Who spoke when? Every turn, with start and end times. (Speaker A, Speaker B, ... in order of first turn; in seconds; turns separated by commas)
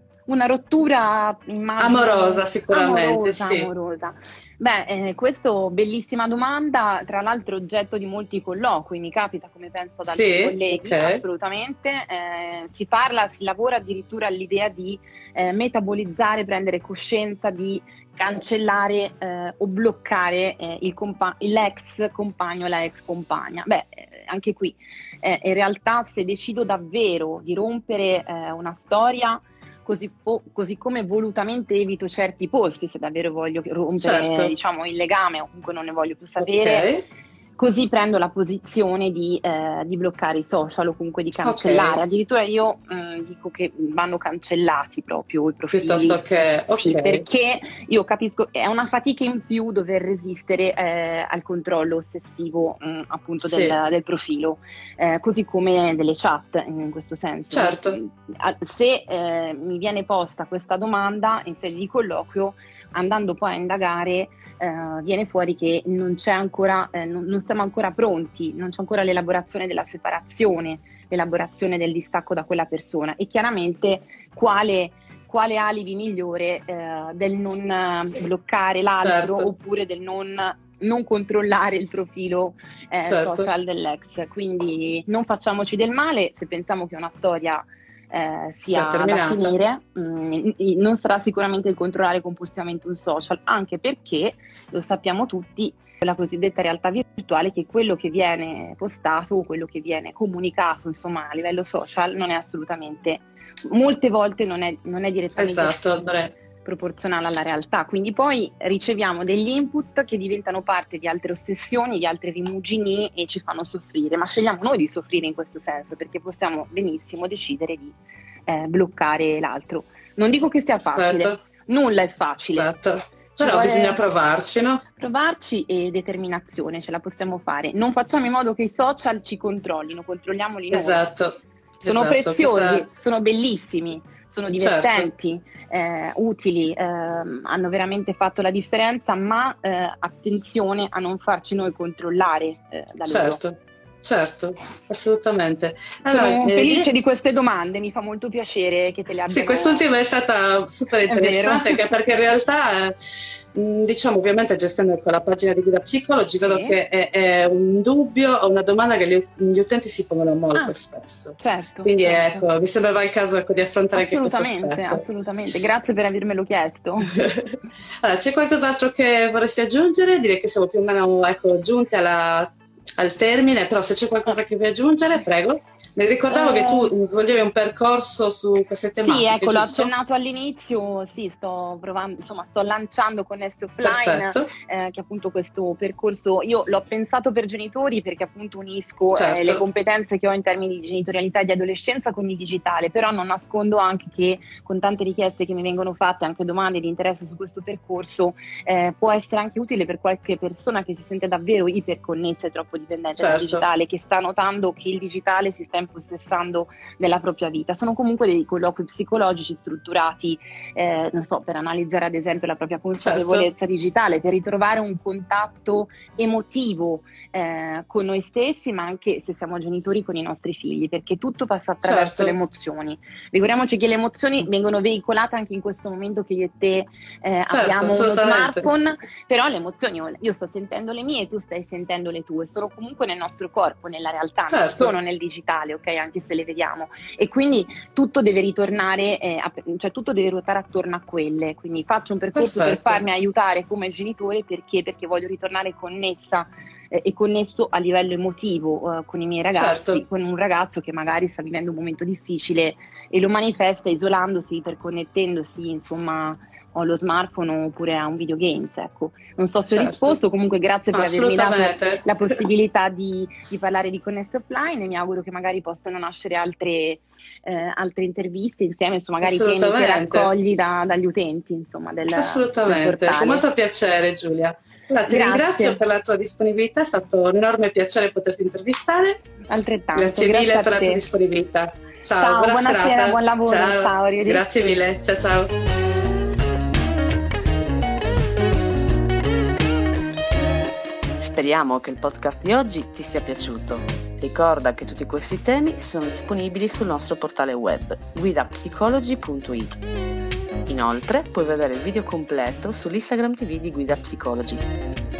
Speaker A: 0.3-36.9, Speaker B: 1.8-3.7, Speaker B: 10.1-11.2, Speaker B: 34.0-34.5, Speaker B: 36.4-37.1, Speaker A: 37.6-105.8, Speaker B: 41.4-42.0, Speaker B: 45.7-47.2, Speaker B: 53.4-53.8, Speaker B: 57.5-58.0, Speaker B: 79.0-79.5, Speaker B: 83.1-83.5, Speaker B: 88.7-89.5, Speaker B: 105.4-106.3, Speaker A: 106.6-122.7, Speaker B: 121.0-121.4, Speaker B: 122.6-124.8, Speaker A: 123.4-124.0, Speaker A: 125.0-131.1, Speaker B: 130.7-132.9, Speaker A: 131.9-143.4, Speaker B: 134.6-135.1, Speaker B: 143.1-146.9, Speaker A: 146.1-149.8, Speaker B: 149.3-165.0, Speaker A: 151.1-151.8, Speaker A: 156.4-156.8, Speaker A: 161.4-162.5, Speaker A: 163.9-167.3, Speaker B: 167.1-179.9, Speaker A: 176.3-176.9, Speaker A: 179.0-273.5, Speaker B: 183.8-184.5, Speaker B: 189.1-189.6, Speaker B: 203.2-203.6, Speaker B: 213.0-213.5, Speaker B: 221.8-222.3, Speaker B: 227.5-228.7, Speaker B: 234.5-234.9, Speaker B: 242.3-243.0, Speaker B: 249.5-250.0, Speaker B: 259.7-260.2, Speaker B: 260.9-262.4, Speaker B: 269.2-270.3, Speaker B: 272.1-279.2, Speaker A: 275.1-275.8, Speaker A: 279.5-281.0, Speaker B: 279.9-285.5, Speaker A: 282.2-284.8, Speaker C: 291.2-299.8, Speaker C: 300.7-304.6